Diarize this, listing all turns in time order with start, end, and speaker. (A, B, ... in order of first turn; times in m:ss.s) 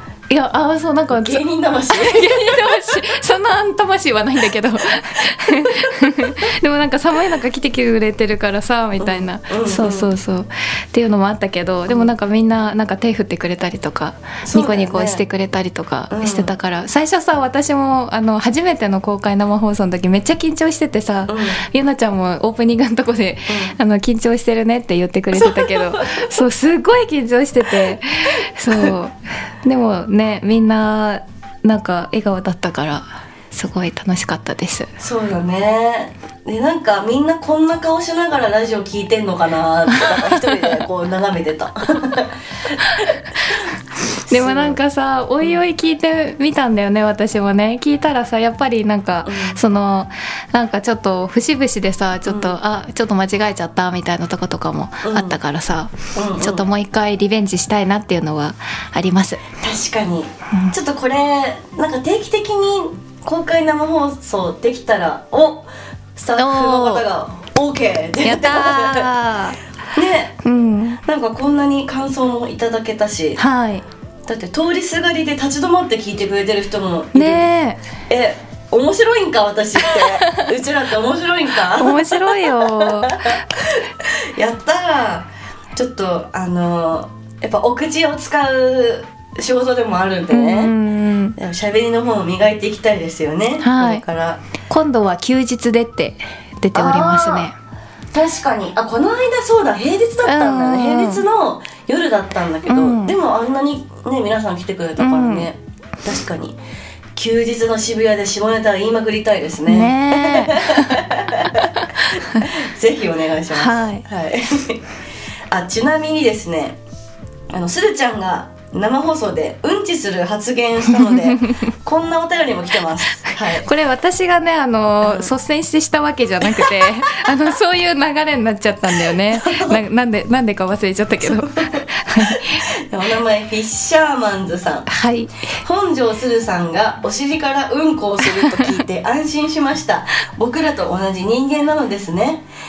0:00.3-0:34.9 A
0:01.1-0:03.1 B
0:05.5-0:06.3 B
0:09.0-0:10.1 B
0:14.4-0:15.2 B
0:16.1-0:16.5 B
0:21.3-0:21.6 B
0:23.5-0:23.8 B
0:25.3-0:26.3 B
0:28.7-0:28.9 B
0:35.0-0:43.7 B
0:39.9-0:40.8 A
0:42.8-0:43.1 A
0:44.1-0:59.4 A
0:44.3-0:44.8 B
0:49.2-0:49.6 B
0:52.2-0:52.6 B
0:55.0-0:55.4 B
0:56.1-0:56.6 B
0:59.6-1:09.1 B
1:00.5-1:00.7 A
1:06.4-1:07.0 A
1:08.2-1:09.6 A
1:09.9-1:10.4 B
1:10.4-1:11.0 A
1:11.0-1:13.4 B
1:13.4-1:13.8 A
1:14.2-1:17.5 B
1:17.1-1:17.8 A
1:18.1-1:30.7 B
1:19.9-1:20.5 A
1:21.7-1:23.4 A
1:30.3-1:31.4 A
1:31.4-1:34.4 B
1:33.6-1:34.0 A
1:34.7-1:37.5 A
1:36.7-1:37.5 B
1:38.1-1:46.6 B
1:40.2-1:41.2 A
1:42.7-1:43.2 A
1:45.0-1:45.5 A
1:47.1-1:54.9 B
1:49.6-1:51.0 A
1:51.8-1:52.5 A
1:53.5-1:54.0 A
1:55.5-1:56.8 B
1:57.5-2:03.7 B
2:00.9-2:01.7 A
2:03.3-2:12.7 A
2:05.0-2:05.3 B
2:06.4-2:07.5 B
2:08.9-2:09.8 B
2:11.2-2:14.9 B
2:14.9-2:15.6 A
2:15.6-2:22.4 B
2:18.2-2:18.8 A